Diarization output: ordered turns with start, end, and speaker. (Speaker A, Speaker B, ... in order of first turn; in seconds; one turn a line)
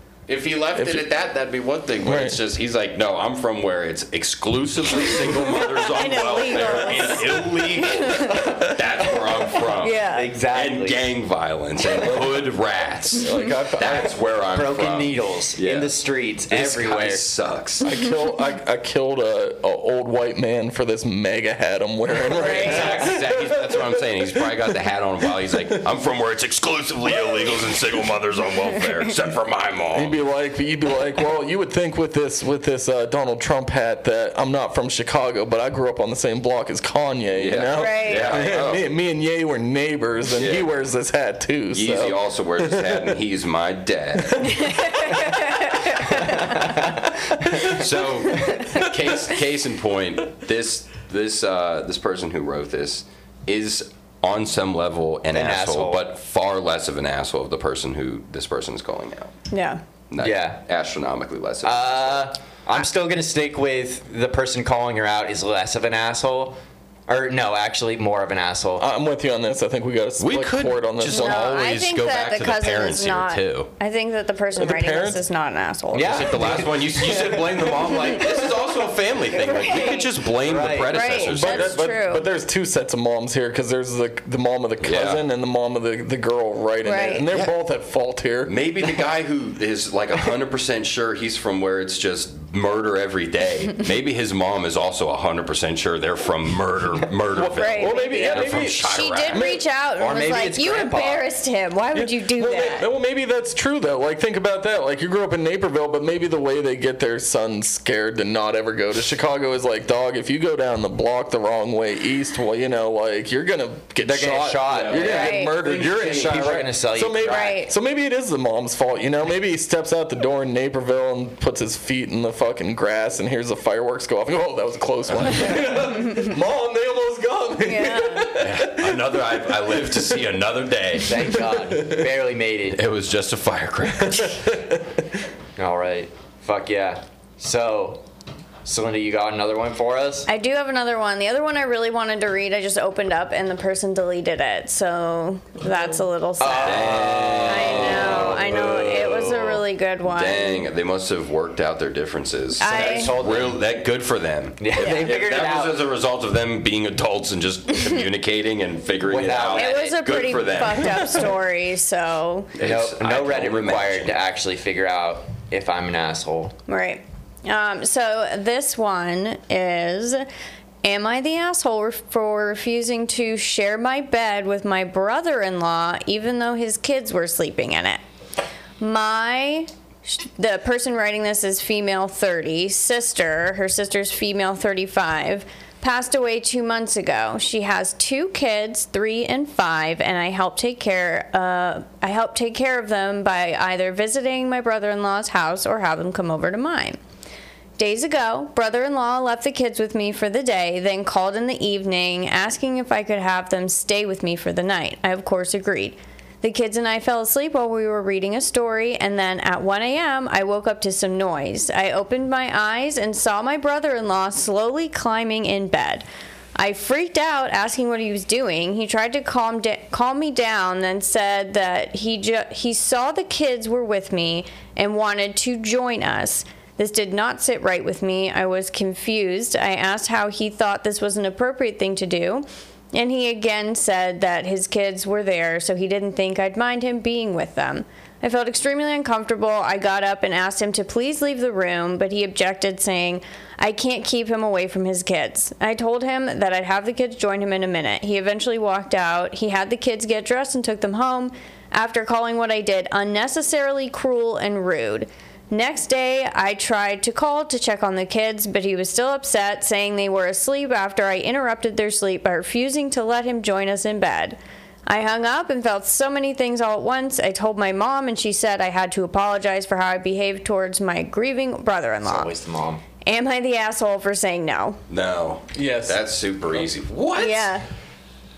Speaker A: 0.3-15.9
Speaker B: 0.8-1.1
Speaker B: 2.0-2.4
Speaker C: 5.5-8.5
Speaker B: 8.1-8.8
Speaker C: 9.7-10.3
Speaker D: 10.1-11.1
Speaker B: 13.2-14.2
Speaker D: 14.5-17.2
Speaker A: 16.5-17.9
Speaker B: 17.9-24.0
Speaker C: 22.3-23.1
Speaker A: 22.3-30.2
Speaker B: 29.9-43.1
Speaker A: 37.3-38.9
Speaker C: 37.8-38.4
Speaker A: 40.4-40.7
Speaker A: 41.7-44.8
Speaker B: 44.3-44.7
Speaker C: 44.6-46.2
Speaker D: 46.1-47.6
Speaker A: 47.6-59.3
Speaker D: 55.3-56.0
Speaker C: 59.5-59.8
Speaker A: 60.1-62.3
Speaker D: 60.2-60.6
Speaker D: 61.6-68.9
Speaker B: 68.8-71.6
Speaker A: 70.2-73.7
Speaker C: 71.1-76.6
Speaker B: 74.6-75.2
Speaker D: 75.9-77.5
Speaker A: 75.9-81.8
Speaker C: 79.4-80.1
Speaker D: 80.4-81.0
Speaker C: 80.9-82.2
Speaker B: 81.3-88.5
Speaker A: 84.8-85.2
Speaker C: 86.8-87.2
Speaker A: 88.5-99.5
Speaker B: 97.3-99.6
Speaker C: 97.4-102.9
Speaker D: 100.0-101.3
Speaker B: 101.9-130.1
Speaker D: 114.0-117.6
Speaker A: 114.7-116.6
Speaker C: 115.0-115.6
Speaker C: 117.2-117.7
Speaker A: 125.1-125.5
Speaker C: 127.7-128.3
Speaker A: 128.4-131.3
Speaker D: 131.1-132.8
Speaker B: 131.7-132.0
Speaker A: 132.7-134.4
Speaker B: 134.1-134.8
Speaker D: 135.6-138.0
Speaker D: 138.7-140.3
Speaker C: 140.3-150.7
Speaker D: 146.4-149.6
Speaker A: 146.5-149.0
Speaker A: 150.0-161.3
Speaker C: 152.6-153.1
Speaker D: 152.7-153.6
Speaker D: 154.6-155.8
Speaker C: 154.8-155.1
Speaker D: 159.1-160.0
Speaker C: 159.6-162.5
Speaker A: 162.6-164.1
Speaker D: 162.6-166.6
Speaker C: 166.7-170.3
Speaker C: 170.8-178.0
Speaker C: 178.8-197.0
Speaker C: 197.8-216.1
Speaker C: 216.6-272.3
Speaker D: 272.1-272.8
Speaker C: 273.1-274.8
Speaker A: 274.9-277.5
Speaker B: 275.6-276.0
Speaker C: 277.2-277.7